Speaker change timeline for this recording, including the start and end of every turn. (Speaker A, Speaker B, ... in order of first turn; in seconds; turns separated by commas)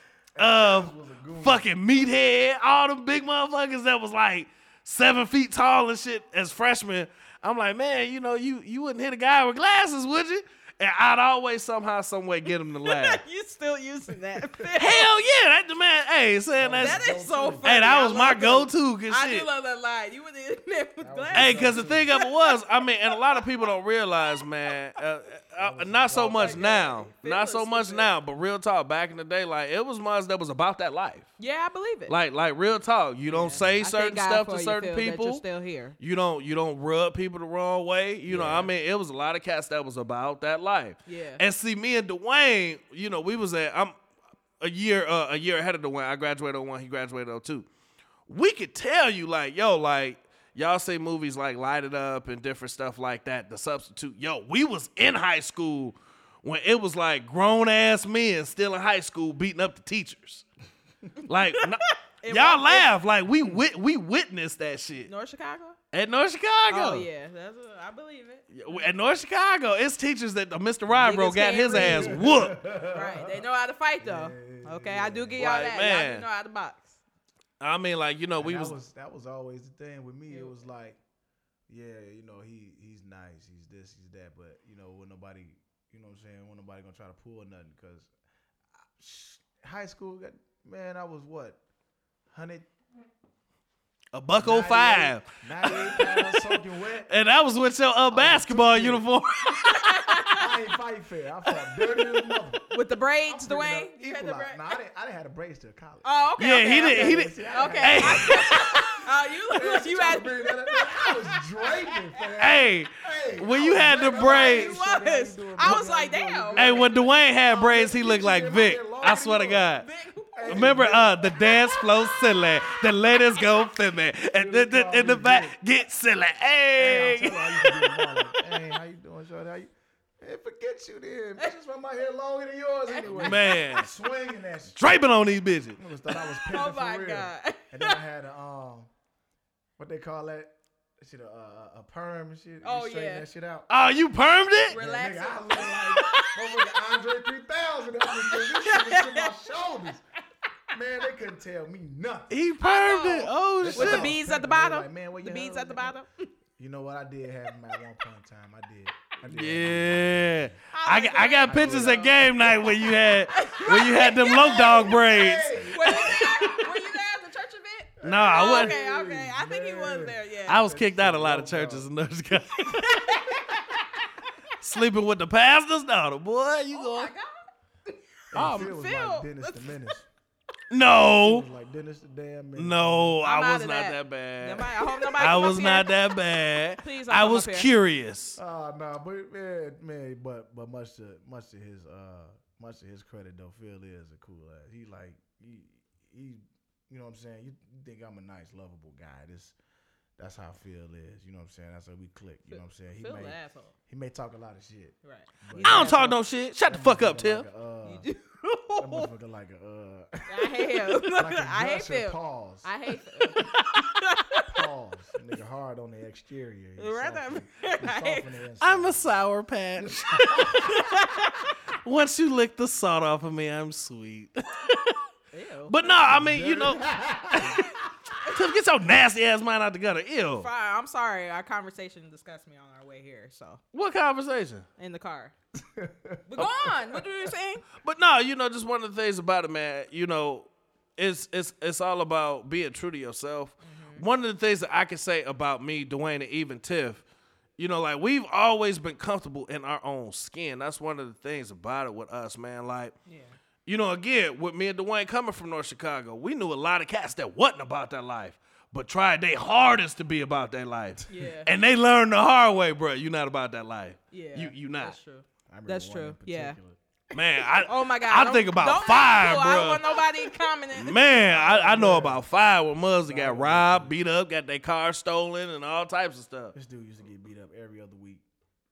Speaker A: 0.3-1.7, Speaker B: 0.4-13.2, Speaker C: 12.8-15.1, Speaker B: 14.8-17.1, Speaker A: 16.6-17.7, Speaker C: 16.8-23.4, Speaker B: 17.6-19.5, Speaker A: 21.0-22.1, Speaker B: 21.4-31.3, Speaker A: 25.6-26.6, Speaker C: 26.2-28.1, Speaker C: 31.4-32.1, Speaker B: 32.1-35.4, Speaker C: 33.3-36.0, Speaker B: 36.0-44.0, Speaker A: 38.3-38.7, Speaker C: 41.1-41.4, Speaker B: 44.6-47.7, Speaker B: 48.3-60.5, Speaker B: 61.3-65.1, Speaker C: 61.6-62.9, Speaker C: 65.1-65.8, Speaker B: 65.9-67.1, Speaker C: 66.7-68.9, Speaker B: 68.5-72.6, Speaker C: 70.9-72.3, Speaker A: 71.7-73.4, Speaker C: 72.9-77.0, Speaker A: 74.0-75.6, Speaker B: 75.4-76.3, Speaker B: 77.6-78.8, Speaker A: 78.4-81.0, Speaker C: 80.3-80.5, Speaker A: 81.7-88.1, Speaker A: 89.0-91.6, Speaker A: 92.3-92.7, Speaker B: 94.1-96.6, Speaker A: 94.4-97.1, Speaker B: 97.1-100.4, Speaker A: 98.1-99.1, Speaker C: 99.7-100.5, Speaker A: 100.4-102.7, Speaker C: 102.7-104.6, Speaker A: 103.3-106.1, Speaker C: 106.0-111.9, Speaker B: 106.4-108.5, Speaker A: 106.8-119.8, Speaker B: 112.4-114.8, Speaker C: 113.9-117.0, Speaker B: 116.6-119.9, Speaker C: 119.8-123.7, Speaker A: 120.3-121.5, Speaker B: 120.5-127.4, Speaker A: 124.3-125.6, Speaker A: 126.8-134.8, Speaker C: 127.6-128.4, Speaker C: 132.9-133.8, Speaker B: 133.1-133.9, Speaker B: 134.8-135.8, Speaker A: 135.8-138.9, Speaker C: 136.1-138.0, Speaker A: 139.8-143.7, Speaker C: 142.6-143.2, Speaker B: 143.7-144.8, Speaker C: 144.7-146.4, Speaker A: 144.7-150.0, Speaker C: 148.1-149.3, Speaker A: 150.7-152.3, Speaker B: 152.3-154.1, Speaker C: 152.6-156.2, Speaker A: 153.6-156.0, Speaker A: 156.6-160.5, Speaker B: 159.3-166.2, Speaker C: 160.7-162.7, Speaker A: 161.5-163.7, Speaker C: 163.3-170.6, Speaker A: 164.7-166.7, Speaker A: 168.0-171.9, Speaker B: 168.0-168.8, Speaker B: 170.5-173.1, Speaker C: 172.6-173.6, Speaker A: 173.3-173.8, Speaker B: 174.6-177.1, Speaker C: 176.7-177.5, Speaker C: 178.3-179.7, Speaker A: 178.3-180.1, Speaker B: 178.3-178.7, Speaker B: 180.7-181.5, Speaker A: 181.0-183.2, Speaker B: 182.6-188.4, Speaker C: 183.2-186.0, Speaker C: 186.8-187.7, Speaker A: 188.4-199.6, Speaker A: 200.2-203.4, Speaker C: 202.5-203.7, Speaker A: 203.9-206.0, Speaker C: 205.0-206.2, Speaker B: 205.6-207.5, Speaker A: 206.6-208.1, Speaker C: 207.8-209.1, Speaker A: 208.8-212.7, Speaker C: 210.3-214.5, Speaker A: 214.3-219.3, Speaker C: 216.8-218.3, Speaker B: 218.6-220.9, Speaker A: 219.8-221.0, Speaker C: 220.4-221.5, Speaker B: 221.8-225.0, Speaker C: 225.3-225.9, Speaker B: 225.7-226.8, Speaker A: 226.0-228.2, Speaker B: 228.3-230.5, Speaker C: 230.4-233.6, Speaker B: 233.7-234.7, Speaker C: 234.8-235.3, Speaker A: 235.6-236.3, Speaker C: 236.3-237.7, Speaker B: 236.4-236.7, Speaker B: 237.8-247.0, Speaker C: 243.6-244.1, Speaker B: 247.6-252.9, Speaker C: 253.1-253.4, Speaker B: 253.7-265.0, Speaker C: 261.1-261.5, Speaker C: 264.1-266.6, Speaker A: 265.5-267.5, Speaker B: 267.1-270.0, Speaker C: 267.6-271.3, Speaker B: 270.8-276.5, Speaker A: 271.3-272.2, Speaker A: 273.1-274.0, Speaker A: 276.5-278.2